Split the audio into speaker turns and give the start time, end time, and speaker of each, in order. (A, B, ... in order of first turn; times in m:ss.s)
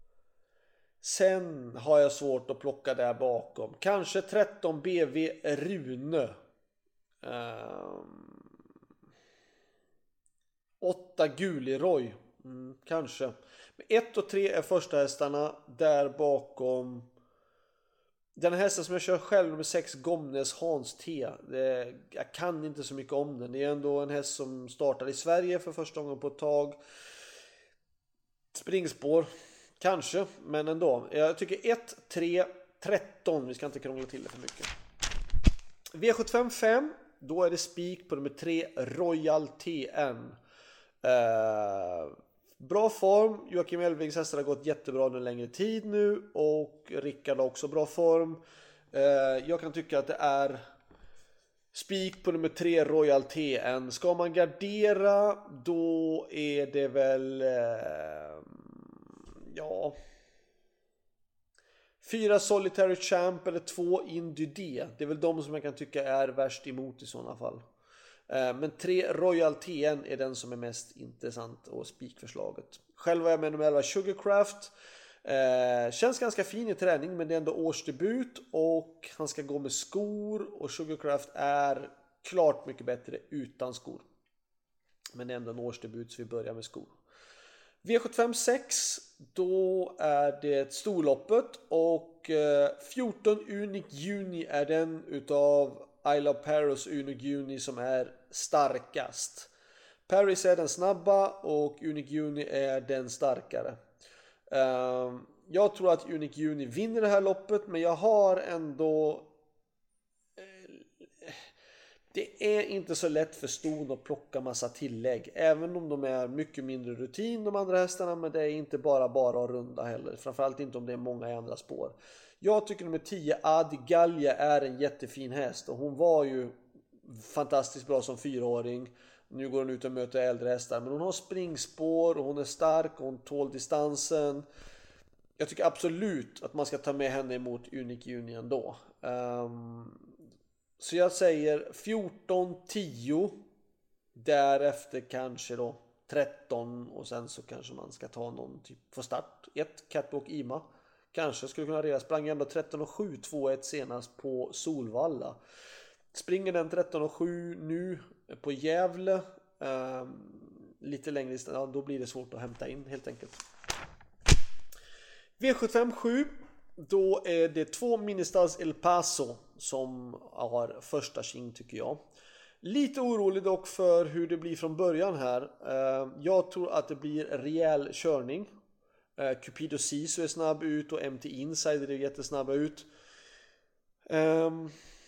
0:01.0-0:06.3 A
0:07.2-0:08.5 A
0:10.8-0:17.1 A
0:18.4-0:26.8 A
0:28.5-0:34.7 A
0:35.9-0:40.4 A
0:41.0-0:48.4 A
0:48.9-0:50.6 A
0:51.7-1:00.0 A
1:02.0-1:07.6 A
1:08.3-1:14.7 A
1:15.2-1:24.0 A
1:25.1-1:26.9 A
1:27.8-1:39.5 A
1:40.1-1:43.8 A
1:44.5-1:49.3 A
1:50.4-1:51.4 A
1:52.1-2:14.4 A
2:15.4-2:20.1 A
2:20.8-2:23.4 A
2:24.1-2:35.4 A
2:36.1-2:43.4 A
2:45.4-2:52.0 A
2:52.6-2:58.5 A
2:59.2-3:02.9 A
3:04.1-3:04.7 A